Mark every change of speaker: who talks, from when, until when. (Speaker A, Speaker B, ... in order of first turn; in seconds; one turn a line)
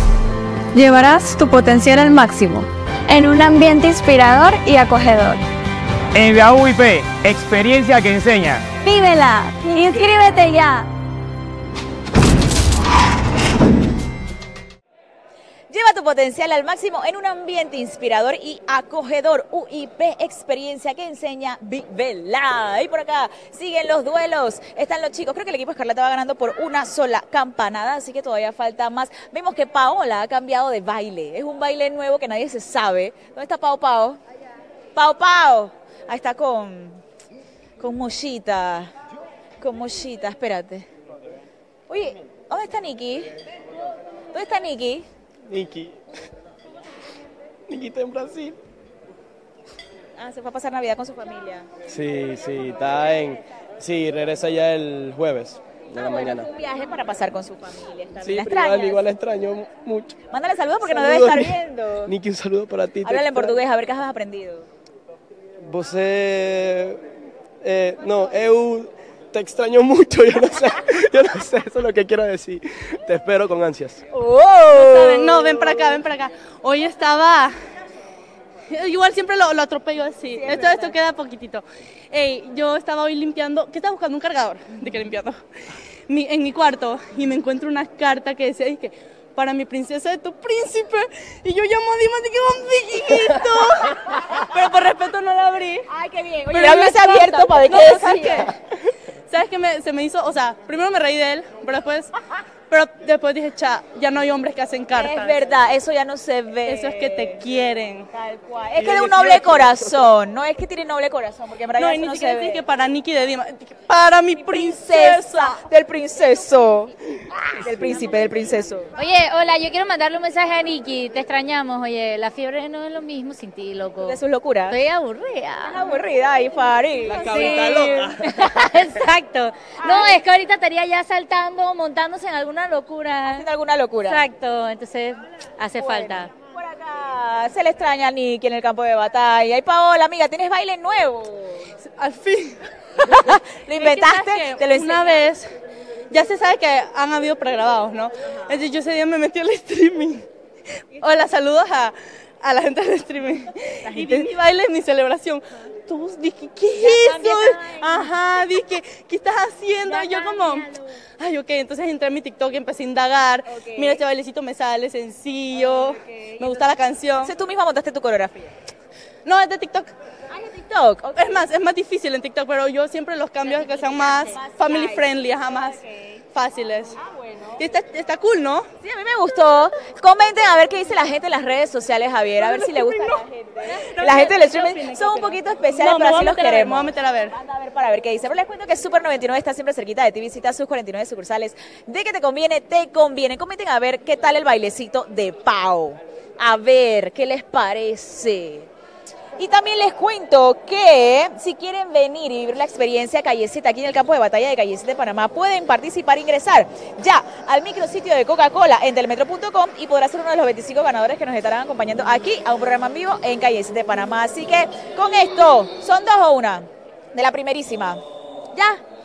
Speaker A: 0.8-5.4
Speaker B: 6.1-8.7
Speaker A: 8.8-10.8
Speaker C: 15.7-34.2
Speaker C: 35.0-37.0
Speaker C: 37.8-38.9
Speaker C: 39.6-40.9
Speaker C: 41.9-43.3
Speaker C: 44.3-45.1
Speaker D: 45.5-46.0
Speaker D: 47.7-48.6
Speaker C: 50.2-51.7
Speaker D: 51.9-56.5
Speaker C: 56.0-59.0
Speaker D: 58.2-60.2
Speaker C: 60.3-62.1
Speaker D: 60.8-63.6
Speaker C: 63.0-64.7
Speaker D: 65.6-67.0
Speaker D: 67.6-74.0
Speaker C: 74.1-75.8
Speaker E: 74.7-77.5
Speaker E: 78.7-85.4
Speaker C: 80.3-81.0
Speaker E: 86.1-95.9
Speaker C: 95.9-98.5
Speaker E: 96.5-98.5
Speaker E: 99.3-102.1
Speaker E: 102.7-105.4
Speaker C: 104.9-107.4
Speaker E: 106.7-108.1
Speaker C: 108.1-112.7
Speaker D: 108.8-109.7
Speaker E: 111.8-115.6
Speaker C: 114.4-116.9
Speaker C: 117.5-118.9
Speaker F: 119.0-126.0
Speaker C: 124.0-124.8
Speaker C: 125.7-128.0
Speaker D: 127.0-128.2
Speaker F: 127.2-133.4
Speaker C: 129.8-130.2
Speaker C: 133.3-134.2
Speaker F: 134.0-136.3
Speaker C: 135.8-141.7
Speaker E: 141.9-142.6
Speaker C: 143.0-145.2
Speaker E: 143.8-145.5
Speaker E: 146.1-150.3
Speaker E: 150.9-167.3
Speaker C: 153.9-154.3
Speaker C: 156.7-158.1
Speaker C: 159.8-160.7
Speaker C: 163.5-164.0
Speaker C: 165.5-168.5
Speaker E: 169.2-169.9
Speaker C: 170.3-171.5
Speaker E: 171.1-175.8
Speaker C: 173.4-176.2
Speaker E: 176.3-177.0
Speaker C: 177.1-177.6
Speaker E: 177.6-178.7
Speaker C: 178.8-198.7
Speaker E: 182.4-187.4
Speaker C: 199.4-218.0
Speaker C: 218.5-218.8